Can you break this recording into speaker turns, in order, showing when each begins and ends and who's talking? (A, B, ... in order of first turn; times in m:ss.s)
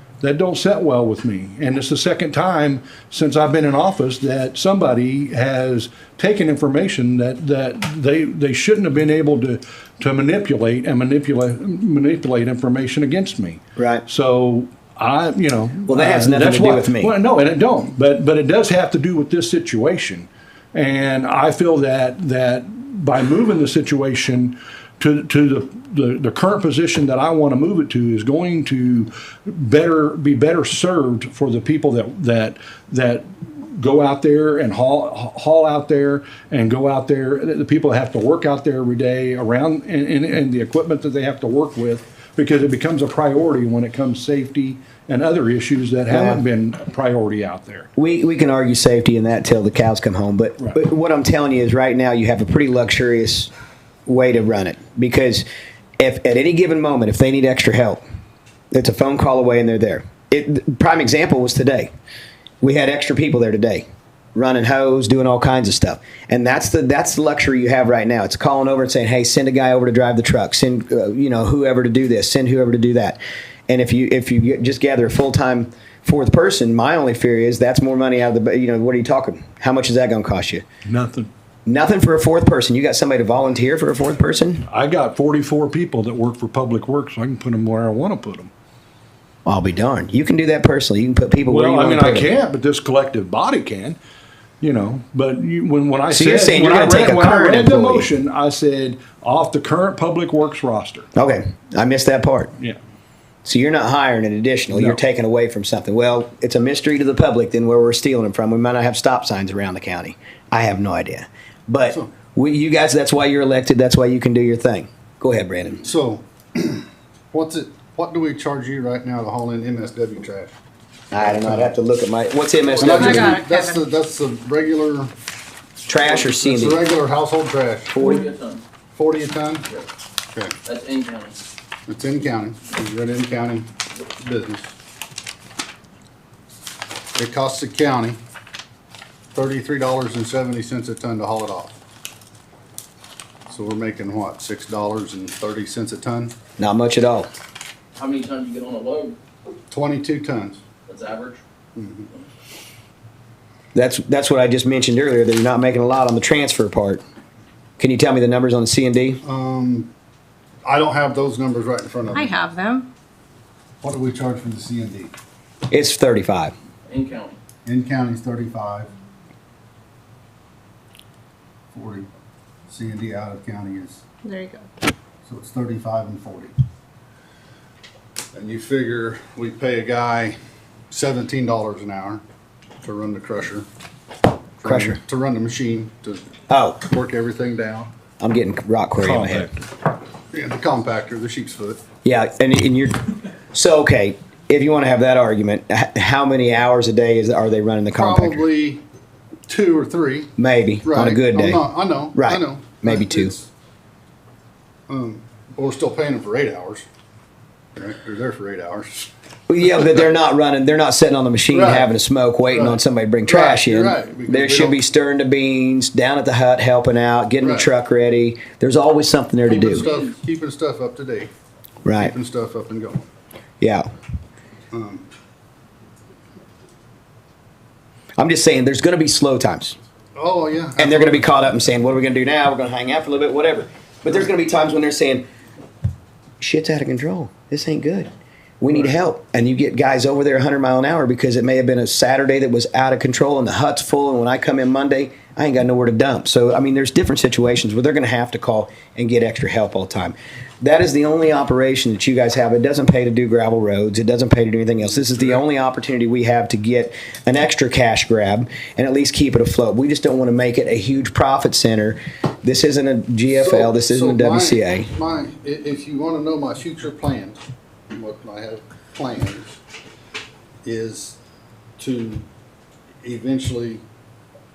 0:00.2-0:47.9 A
0:13.8-0:14.0 B
0:15.9-0:17.1 B
0:46.1-0:46.4 B
0:48.0-0:53.5 B
0:54.0-0:55.4 B
0:56.0-0:58.0 B
0:58.7-1:01.9 B
1:02.6-1:20.6 B
1:20.8-1:21.3 A
1:21.6-1:24.6 B
1:24.7-1:28.5 A
1:29.4-1:32.3 B
1:31.5-1:34.0 A
1:34.6-1:41.1 A
1:36.1-1:38.1 B
1:41.1-1:42.5 B
1:43.4-1:55.8 B
1:44.7-1:45.0 A
1:55.8-2:00.5 C
2:01.1-2:03.4 B
2:01.2-2:01.7 C
2:02.8-2:05.1 C
2:02.8-2:03.8 D
2:05.9-2:06.8 B
2:06.2-2:08.1 C
2:07.9-2:08.3 B
2:08.0-2:08.6 E
2:08.9-2:09.7 C
2:10.6-2:11.4 E
2:11.9-2:14.7 C
2:17.1-2:18.2 C
2:19.3-2:21.8 C
2:23.5-2:26.3 C
2:26.6-2:27.3 B
2:28.0-2:29.2 E
2:29.7-2:30.6 C
2:30.9-2:31.4 E
2:31.7-2:32.1 C
2:33.7-2:37.0 B
2:37.8-2:39.2 B
2:39.2-2:39.9 C
2:40.6-2:42.3 C
2:42.1-2:42.9 D
2:43.8-2:45.1 C
2:45.7-2:46.5 B
2:46.9-2:47.4 E
2:47.6-2:48.9 C
2:51.7-2:52.1 C
2:52.7-2:54.0 C
2:54.2-2:54.7 D
2:55.2-2:56.5 C
2:58.3-3:00.4 C
3:00.9-3:02.2 C
3:02.8-3:03.6 C
3:04.6-3:06.3 C
3:04.6-3:05.0 B
3:06.5-3:06.8 B
3:06.8-3:07.9 C
3:08.2-3:09.5 B
3:09.0-3:09.7 A
3:10.3-3:11.8 C
3:12.0-3:18.4 B
3:18.0-3:18.8 C
3:19.5-3:20.3 C
3:20.4-3:23.3 B
3:20.8-3:23.5 C
3:24.9-3:26.8 C
3:27.8-3:29.1 C
3:29.5-3:39.9 B
3:31.5-3:31.9 C
3:32.5-3:34.8 C
3:37.4-3:37.7 C
3:39.5-3:40.1 E
3:39.5-3:41.3 C
3:41.8-3:42.1 B
3:42.0-3:43.1 C
3:43.6-3:43.9 B
3:44.7-3:45.0 C
3:48.2-3:49.8 B
3:50.1-3:51.2 C
3:50.8-3:55.2 B
3:56.4-4:24.9 B
4:23.3-4:27.4 C
4:27.9-4:29.6 C
4:30.6-4:31.2 C
4:31.8-4:32.2 C
4:33.0-4:33.8 C